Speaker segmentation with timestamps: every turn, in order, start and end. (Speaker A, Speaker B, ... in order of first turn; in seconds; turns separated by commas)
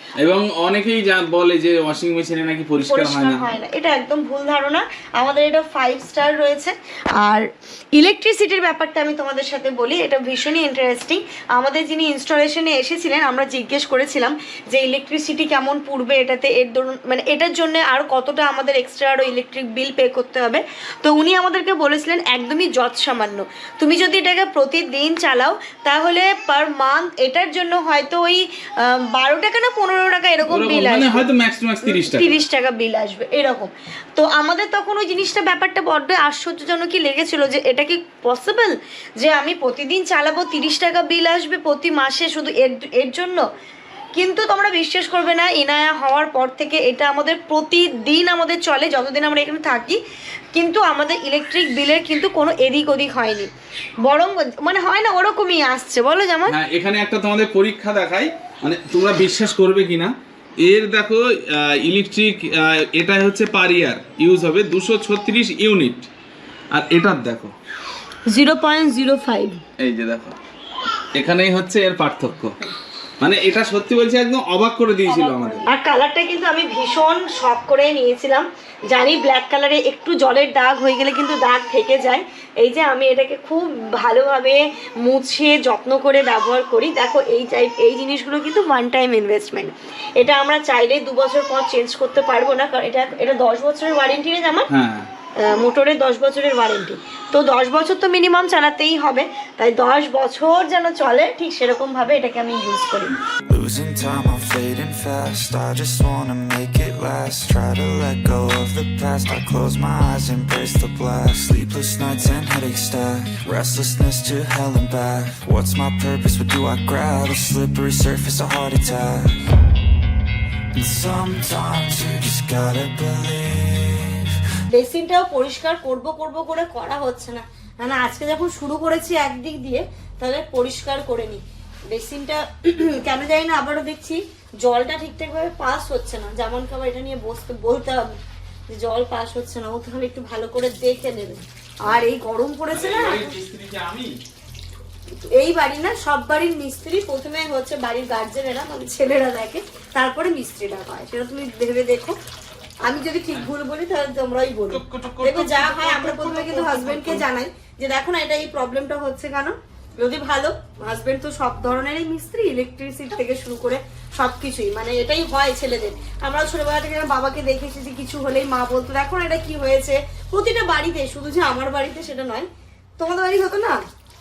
Speaker A: 0.2-3.5, Speaker B: 2.8-31.3, Speaker A: 30.5-32.3, Speaker B: 31.8-43.4, Speaker B: 44.1-50.0, Speaker B: 50.5-56.5, Speaker A: 56.5-66.1, Speaker A: 66.7-67.5, Speaker B: 68.3-69.6, Speaker A: 69.8-70.3, Speaker A: 71.1-72.6, Speaker A: 73.2-75.7, Speaker B: 75.1-94.7, Speaker A: 94.7-95.1, Speaker B: 95.4-103.2, Speaker C: 103.5-119.5, Speaker C: 120.7-124.3, Speaker B: 124.7-138.1, Speaker B: 138.7-143.3, Speaker A: 142.7-144.1, Speaker B: 145.1-152.2, Speaker B: 152.8-173.8, Speaker A: 154.7-157.2